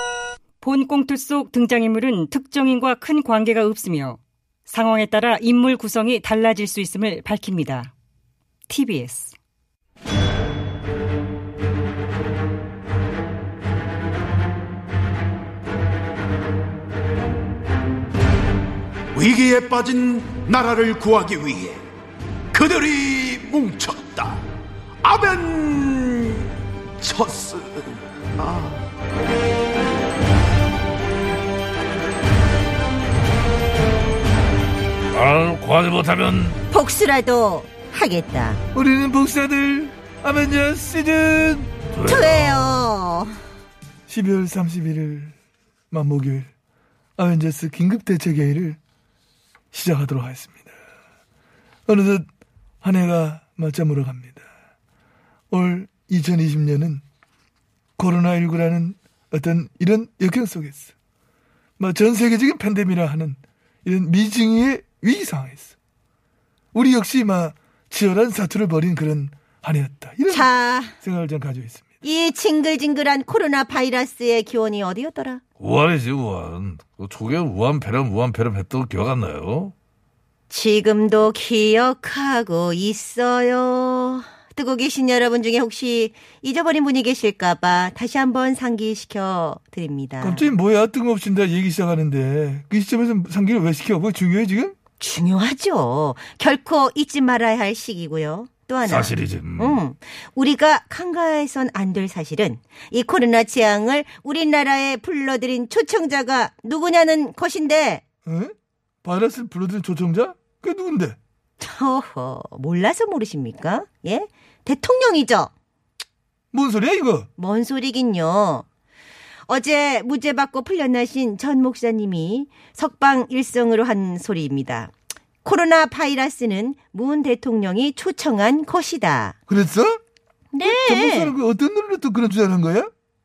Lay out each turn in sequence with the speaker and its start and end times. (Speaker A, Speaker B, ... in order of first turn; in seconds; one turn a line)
Speaker A: 0.6-7.9
Speaker A: 8.7-9.4
Speaker B: 19.1-21.8
Speaker B: 22.5-24.4
Speaker B: 25.0-28.8
Speaker C: 35.1-36.6
Speaker D: 36.7-38.6
Speaker E: 38.7-41.7
Speaker C: 41.9-42.8
Speaker D: 42.0-43.4
Speaker E: 44.1-45.3
Speaker E: 45.9-46.5
Speaker E: 47.2-48.8
Speaker E: 49.7-50.7
Speaker E: 51.9-52.3
Speaker E: 52.8-54.5
Speaker E: 55.5-57.0
Speaker E: 58.0-60.9
Speaker E: 61.8-65.7
Speaker E: 66.7-71.9
Speaker D: 70.3-71.0
Speaker D: 72.0-75.4
Speaker C: 75.6-79.7
Speaker D: 80.5-90.5
Speaker E: 90.2-94.8
Speaker D: 95.0-108.0
Speaker C: 98.9-99.8
Speaker E: 108.2-111.2
Speaker D: 111.6-115.5
Speaker E: 116.5-117.3
Speaker D: 117.4-118.7
Speaker D: 119.5-129.4
Speaker E: 129.5-130.0
Speaker D: 130.5-131.3
Speaker E: 130.6-132.9